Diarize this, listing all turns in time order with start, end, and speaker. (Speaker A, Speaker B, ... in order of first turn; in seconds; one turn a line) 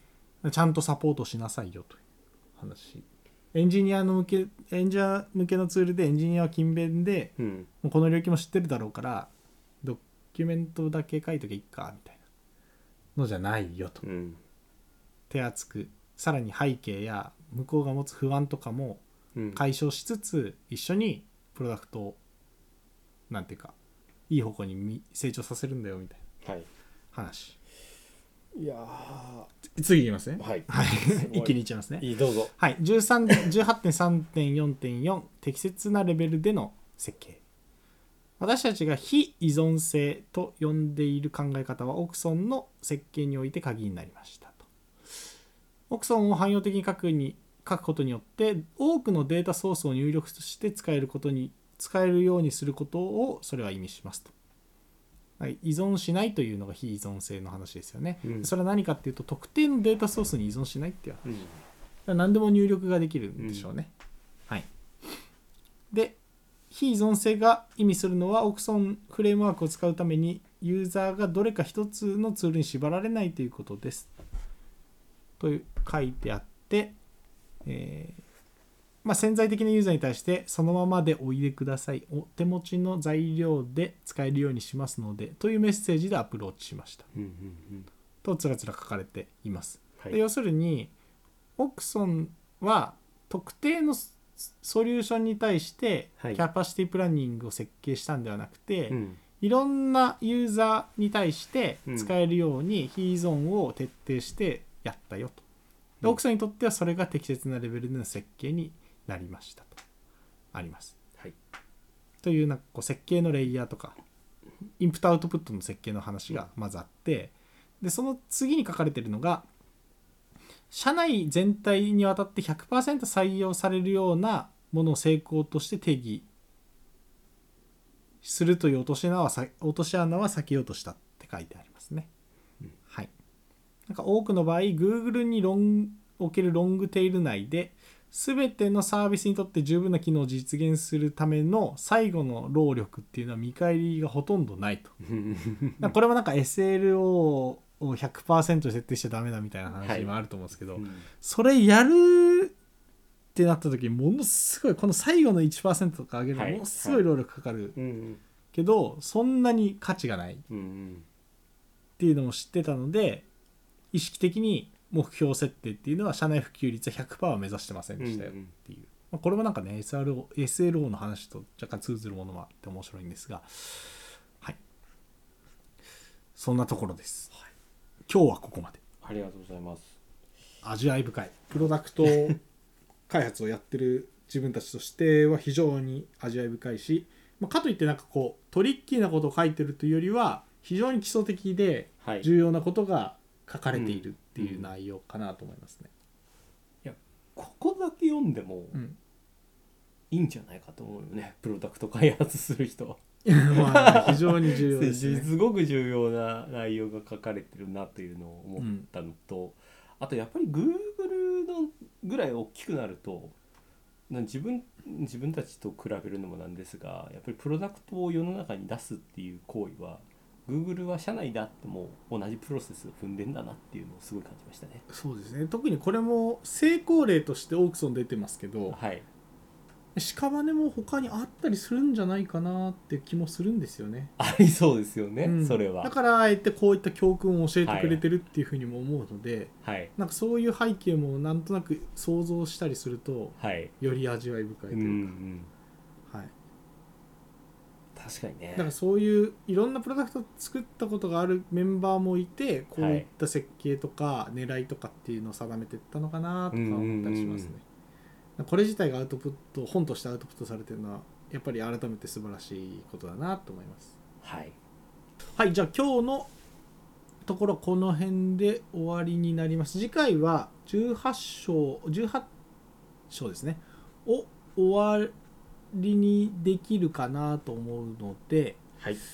Speaker A: 0.4-2.0
Speaker A: 2.6-9.3
Speaker B: 7.4-7.7
Speaker A: 9.8-12.2
Speaker A: 13.2-14.0
Speaker B: 14.0-14.4
Speaker A: 15.3-19.0
Speaker B: 19.3-19.6
Speaker A: 19.5-22.2
Speaker A: 23.3-23.7
Speaker A: 24.3-26.2
Speaker B: 26.4-26.7
Speaker A: 27.1-27.6
Speaker B: 28.5-29.5
Speaker A: 29.6-37.4
Speaker B: 30.4-32.5
Speaker A: 38.4-44.6
Speaker A: 45.9-54.3
Speaker A: 55.4-61.2
Speaker B: 58.2-58.5
Speaker B: 61.2-61.6
Speaker A: 62.1-63.9
Speaker B: 63.4-63.7
Speaker A: 65.9-66.2
Speaker A: 66.7-74.1
Speaker A: 75.4-77.0
Speaker A: 77.6-78.2
Speaker A: 79.0-87.1
Speaker B: 87.1-87.9
Speaker A: 88.2-90.9
Speaker A: 91.6-105.4
Speaker B: 98.9-99.2
Speaker B: 101.9-102.1
Speaker A: 106.0-109.8
Speaker A: 110.5-110.9
Speaker A: 112.2-114.0
Speaker A: 114.8-119.5
Speaker A: 120.7-126.3
Speaker A: 128.2-132.1
Speaker A: 133.9-144.9
Speaker B: 145.0-146.0
Speaker A: 145.8-152.5
Speaker B: 149.8-150.1
Speaker B: 150.7-151.1
Speaker A: 153.3-157.8
Speaker B: 156.3-157.1
Speaker B: 157.7-158.2
Speaker A: 158.5-160.4
Speaker B: 160.5-161.1
Speaker A: 162.0-163.2
Speaker A: 163.9-174.6
Speaker B: 168.0-168.5
Speaker A: 176.3-177.3
Speaker A: 178.1-178.8
Speaker B: 179.0-180.0
Speaker A: 180.6-182.4
Speaker B: 182.1-182.3
Speaker A: 183.1-195.9
Speaker B: 193.7-194.7
Speaker B: 196.8-198.8
Speaker B: 200.1-213.3
Speaker A: 203.2-205.3
Speaker A: 208.6-208.8
Speaker B: 214.1-224.8
Speaker A: 224.9-228.8
Speaker B: 228.7-229.1
Speaker A: 229.9-234.1
Speaker B: 234.2-235.9
Speaker A: 235.2-245.1
Speaker B: 237.6-238.0
Speaker B: 239.6-239.9
Speaker B: 243.4-243.7
Speaker B: 244.7-245.5
Speaker A: 246.1-246.3
Speaker B: 247.9-248.7
Speaker A: 248.6-257.6
Speaker B: 252.8-253.1
Speaker B: 256.5-257.5
Speaker A: 258.4-263.9
Speaker B: 264.2-264.5
Speaker A: 265.4-266.3
Speaker A: 267.2-272.3
Speaker A: 273.1-275.1
Speaker A: 275.7-278.6